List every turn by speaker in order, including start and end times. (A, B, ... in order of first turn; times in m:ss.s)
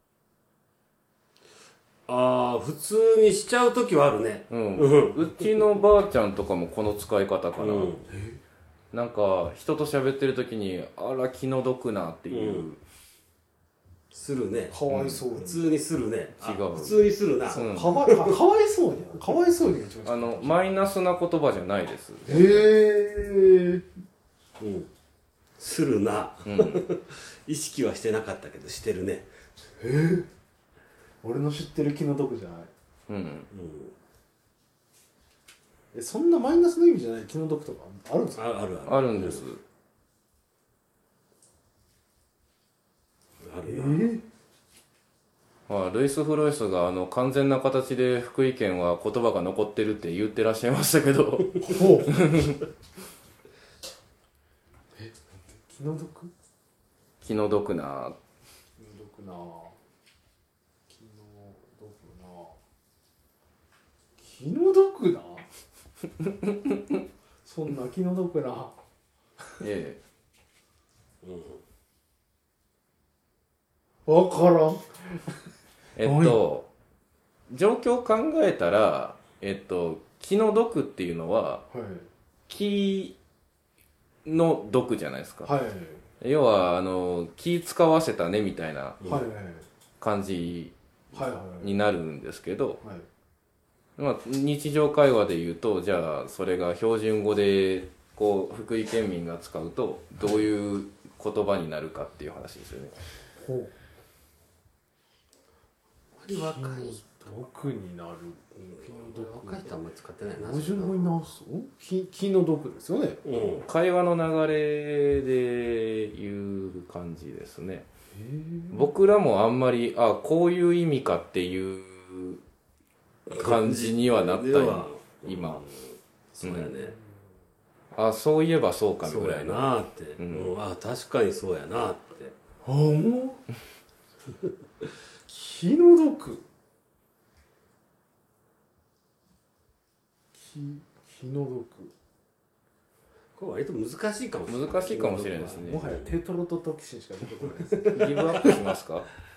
0:02.1-0:05.6 A
0:04.5-0:07.9 B
0:07.6-0:08.1 A
0:08.1-0:08.4 C
0:08.9-0:12.8 B
0:12.3-0:12.7 A
0:14.1-0:14.8 A
0:14.7-0:15.8 C
0:14.9-0:15.2 B
0:15.3-0:18.4 A
0:16.4-0:17.0 B
0:17.4-0:20.7 C
0:17.5-0:17.9 B
0:20.0-0:22.6 B
0:22.2-0:23.8 C
0:24.6-0:24.9 A
0:25.6-0:29.3 A
0:26.4-0:26.8 B
0:29.8-0:30.3 C
0:31.2-0:32.7 C
0:33.1-0:33.5 B
0:33.5-0:33.9 A
0:35.9-0:38.5 C
0:38.4-0:39.5 A
0:38.9-0:39.6 B
0:43.4-0:44.1 A
0:43.6-0:44.2 C
0:45.7-0:52.6 B
0:51.6-0:52.1 C
0:55.0-0:56.3 C
0:57.2-0:58.1 B
0:58.8-0:59.8 C
1:00.9-1:02.6 C
1:04.2-1:05.4 C
1:07.4-1:08.7 C
1:09.6-1:10.0 B
1:11.2-1:11.6 A
1:14.1-1:15.5 C
1:16.0-1:16.7 B
1:16.0-1:16.4 C
1:17.5-1:21.6 B
1:21.7-1:22.1 C
1:22.5-1:23.1 B
1:24.2-1:25.5 B
1:25.4-1:26.0 C
1:26.2-1:29.0 B
1:29.1-1:29.7 C
1:30.0-1:32.8 B
1:31.1-1:31.8 C
1:34.0-1:42.9 B
1:40.2-1:40.5 C
1:43.4-1:43.7 C
1:46.2-1:47.0 A
1:46.3-1:49.8 C
1:48.7-1:51.2 A
1:50.4-1:53.3 C
1:53.2-1:53.7 A
1:53.6-1:57.8 B
1:58.1-1:58.9 C
1:58.7-2:02.4 B
2:03.3-2:07.0 A
2:03.4-2:05.6 B
2:06.4-2:06.7 B
2:07.9-2:09.6 B
2:09.0-2:12.3 A
2:10.2-2:10.5 B
2:12.6-2:13.4 C
2:15.3-2:16.4 C
2:20.4-2:21.9 C
2:23.4-2:26.2 A
2:24.5-2:25.8 B
2:25.6-2:28.6 C
2:27.4-2:28.6 A
2:27.9-2:29.1 B